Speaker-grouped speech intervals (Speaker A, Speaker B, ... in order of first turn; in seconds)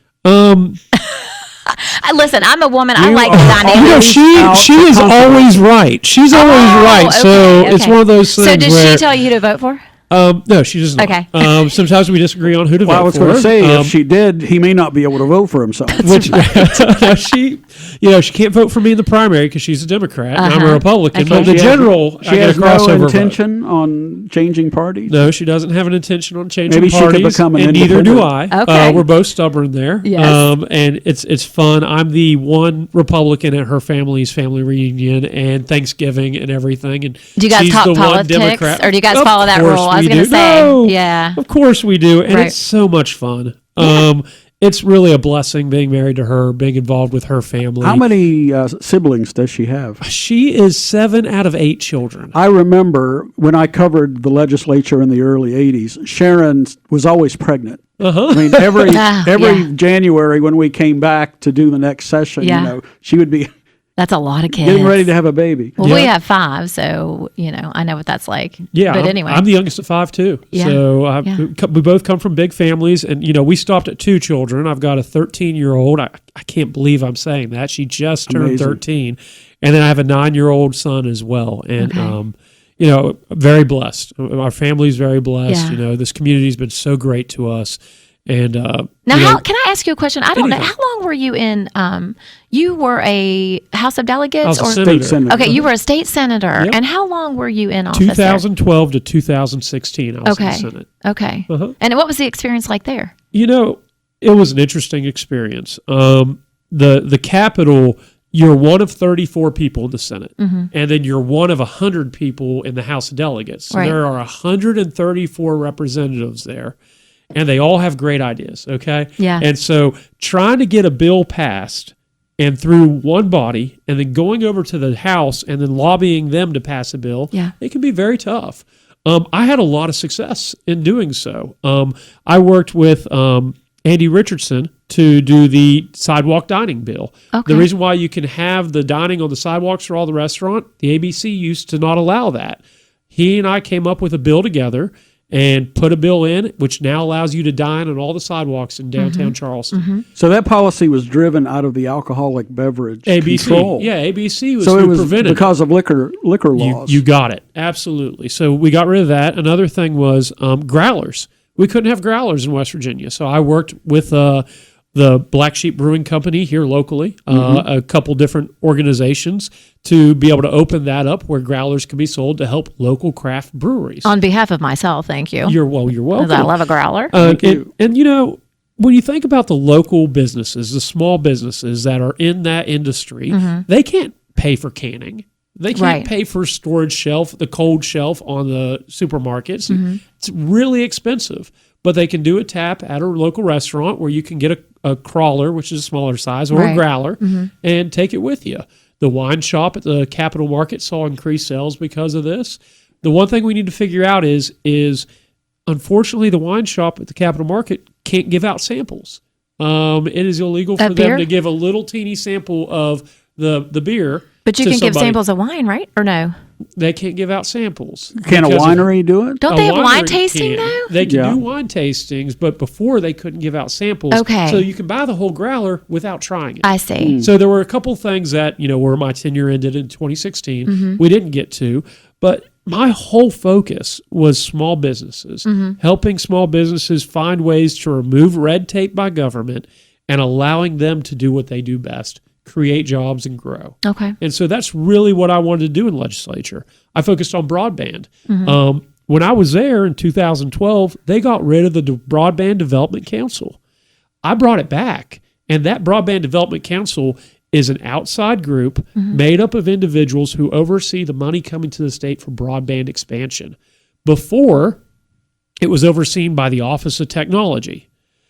Speaker A: 0.2-0.8, 3.7-9.1, 10.1-13.9, 16.0-23.4, 25.1-48.1, 50.0-52.3, 58.0-59.0, 65.8-66.1, 68.7-89.4, 90.3-90.7, 94.4-95.6, 97.9-100.9, 101.5-101.8, 103.3-116.8, 117.3-149.8, 153.1-155.5, 156.6-174.1, 175.4-176.5, 177.1-205.1, 205.7-215.2, 216.8-218.9, 219.4-253.6, 254.2-264.8, 265.6-267.9
Speaker B: 0.9-4.1, 6.3-9.8, 11.0-11.7, 15.9-16.9, 20.3-21.7, 28.5-29.0, 30.0-30.4, 37.4-41.4, 42.3-42.5, 43.8-44.1, 58.9-59.7, 62.4-62.8, 64.0-65.1, 65.8-69.5, 70.5-71.5, 81.8-82.2, 85.5-85.8, 89.1-98.4, 100.2-103.1, 110.4-110.7, 113.7-114.0, 119.2-119.4, 137.3-137.7, 149.0-150.0, 174.0-175.6, 176.1-177.1, 183.3-183.6, 185.7-186.1, 189.7-190.0, 196.5-197.5, 210.8-211.3, 214.4-216.3, 219.4-220.9, 224.1-224.7, 226.6-227.2, 230.7-231.0, 235.4-235.8, 243.8-244.2, 248.3-248.6
Speaker C: 3.0-5.6, 12.8-16.4, 21.2-25.2, 26.7-28.3, 47.8-50.0, 52.3-63.5, 64.5-65.8, 78.3-78.8, 94.8-95.7, 150.2-153.9, 154.6-157.0, 167.3-167.6, 177.2-177.7, 218.2-219.4, 221.0-221.4, 227.0-227.3